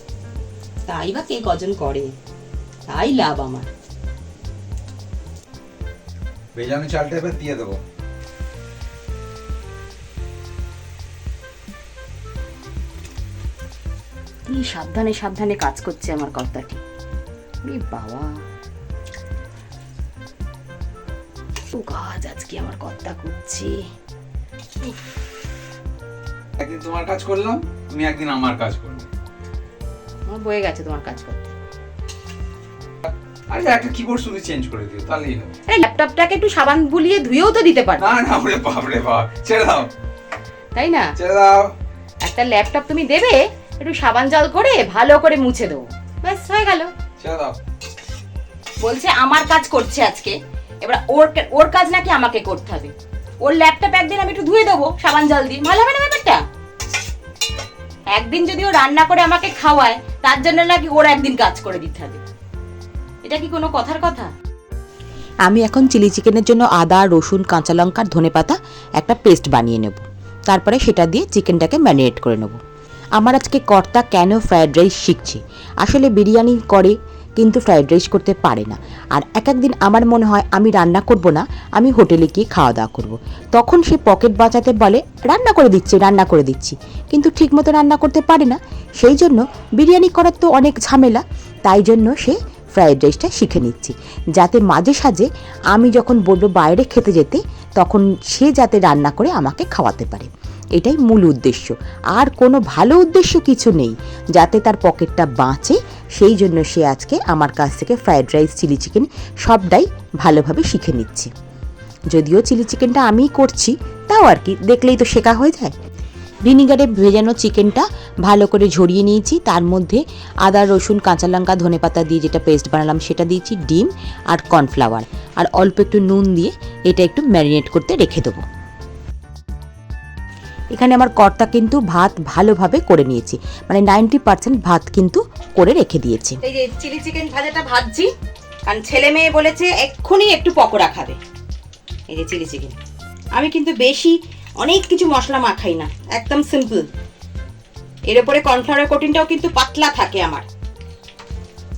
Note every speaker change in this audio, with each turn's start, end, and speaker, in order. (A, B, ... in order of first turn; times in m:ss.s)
0:00.9-0:02.1 A
0:02.9-0:03.7 A
0:06.6-0:07.8 B
0:14.5-0:16.8 A
0:17.7-0:18.3 A
0:21.7-0:23.8 A
0:26.6-0:29.1 B
0:30.3-0:31.5 A
0:33.0-0:35.5 B
0:35.7-0:38.2 A
0:38.0-0:39.9 B
0:40.8-0:41.1 A
0:41.2-0:41.7 B
0:42.2-0:46.9 A
0:47.2-0:47.6 B
0:48.8-0:56.4 A
0:58.1-1:02.2 A
1:03.2-1:04.3 A
1:05.4-1:12.6 C
1:13.2-1:51.3 C
1:52.1-1:55.7 C
1:56.5-2:08.4 C
2:10.7-2:16.4 C
2:16.4-2:18.1 A
2:18.7-2:21.2 A
2:22.1-2:22.8 A
2:23.3-2:26.9 A
2:28.0-2:30.5 A